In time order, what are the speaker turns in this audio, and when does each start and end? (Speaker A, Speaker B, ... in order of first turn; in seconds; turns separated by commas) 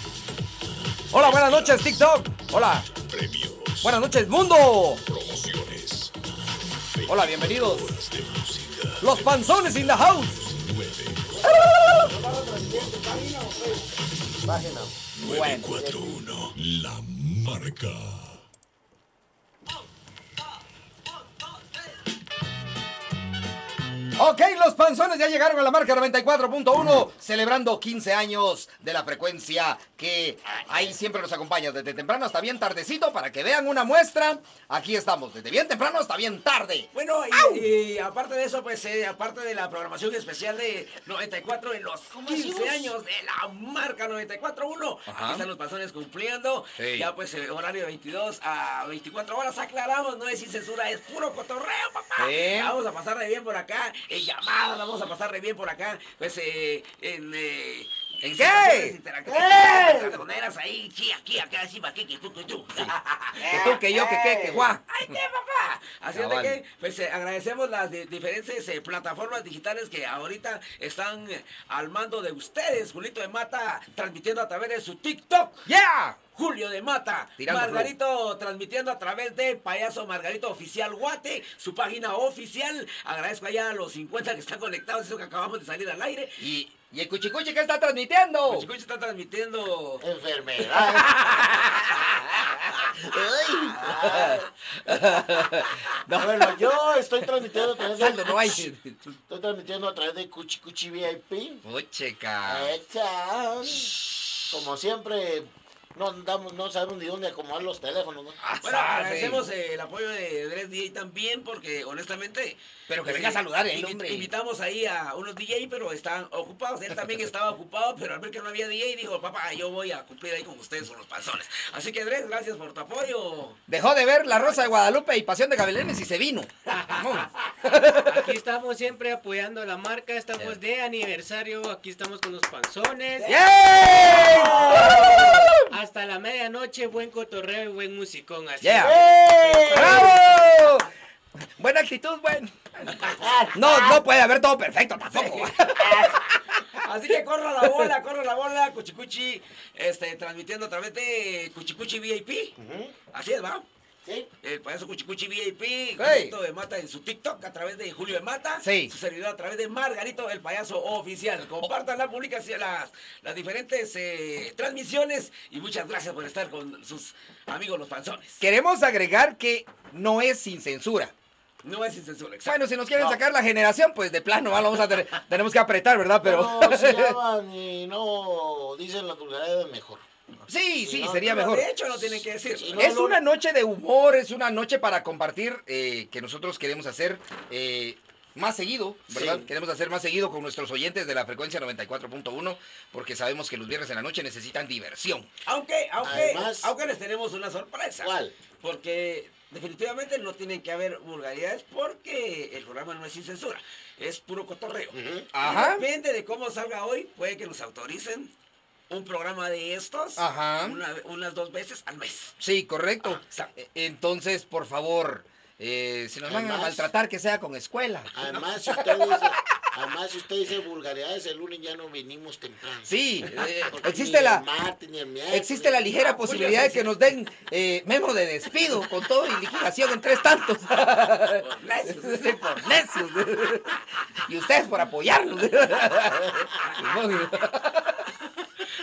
Speaker A: 1.1-2.1, Speaker B: 1.1-2.9, Speaker A: 2.6-4.0, Speaker B: 3.8-5.0, Speaker A: 5.0-13.2, Speaker B: 7.1-7.9, Speaker B: 9.0-10.4, Speaker C: 11.3-13.9, Speaker B: 11.5-12.1, Speaker D: 14.4-14.9, Speaker B: 14.4-16.0, Speaker A: 15.1-18.4, Speaker B: 24.1-37.6, Speaker C: 36.9-75.7, Speaker D: 42.1-42.9, Speaker B: 45.1-45.4, Speaker B: 46.8-47.1, Speaker B: 52.2-52.8, Speaker B: 58.2-58.9, Speaker D: 59.3-60.2, Speaker D: 63.4-64.7, Speaker B: 63.5-65.1, Speaker B: 66.1-66.6, Speaker B: 75.7-76.2, Speaker C: 76.3-86.4, Speaker B: 77.4-77.9, Speaker B: 86.4-88.7, Speaker C: 88.5-90.0, Speaker D: 90.0-91.1, Speaker B: 90.6-96.6, Speaker D: 93.0-94.5, Speaker D: 96.1-98.6, Speaker B: 97.6-99.0, Speaker D: 99.3-101.6, Speaker B: 101.6-102.7, Speaker D: 102.4-103.9, Speaker D: 104.5-108.4, Speaker B: 108.4-109.4, Speaker C: 108.6-123.6, Speaker B: 112.9-114.3, Speaker B: 123.7-128.3, Speaker E: 128.1-133.4, Speaker B: 133.2-135.7, Speaker C: 133.2-135.3, Speaker D: 134.3-135.4, Speaker E: 134.5-140.2, Speaker B: 138.6-139.1, Speaker D: 138.8-140.2, Speaker B: 139.6-140.9, Speaker B: 141.6-142.5, Speaker D: 143.2-144.0, Speaker B: 143.5-146.4, Speaker C: 145.1-145.5, Speaker D: 145.8-146.2, Speaker C: 146.8-152.5, Speaker D: 152.6-152.9, Speaker C: 153.1-153.7, Speaker C: 154.4-168.4, Speaker B: 156.0-156.3, Speaker B: 158.6-158.9, Speaker B: 168.4-171.1, Speaker C: 171.6-172.6, Speaker B: 172.4-177.1, Speaker D: 172.9-173.2, Speaker D: 176.2-180.0, Speaker B: 180.5-181.7, Speaker D: 180.8-181.3, Speaker C: 181.2-182.8, Speaker D: 182.5-183.2, Speaker B: 182.8-195.3, Speaker D: 189.1-189.5, Speaker C: 195.4-208.3, Speaker D: 196.0-196.7, Speaker D: 198.0-198.3, Speaker D: 204.9-205.3, Speaker B: 205.3-205.8, Speaker C: 208.9-212.4, Speaker B: 210.2-210.8, Speaker B: 212.4-218.1, Speaker C: 213.0-213.5, Speaker D: 216.2-216.9, Speaker D: 218.1-225.9, Speaker C: 218.2-218.5, Speaker B: 218.7-219.3, Speaker B: 222.8-224.4, Speaker B: 225.3-238.1, Speaker C: 226.0-226.9, Speaker C: 231.4-232.4, Speaker C: 236.6-237.0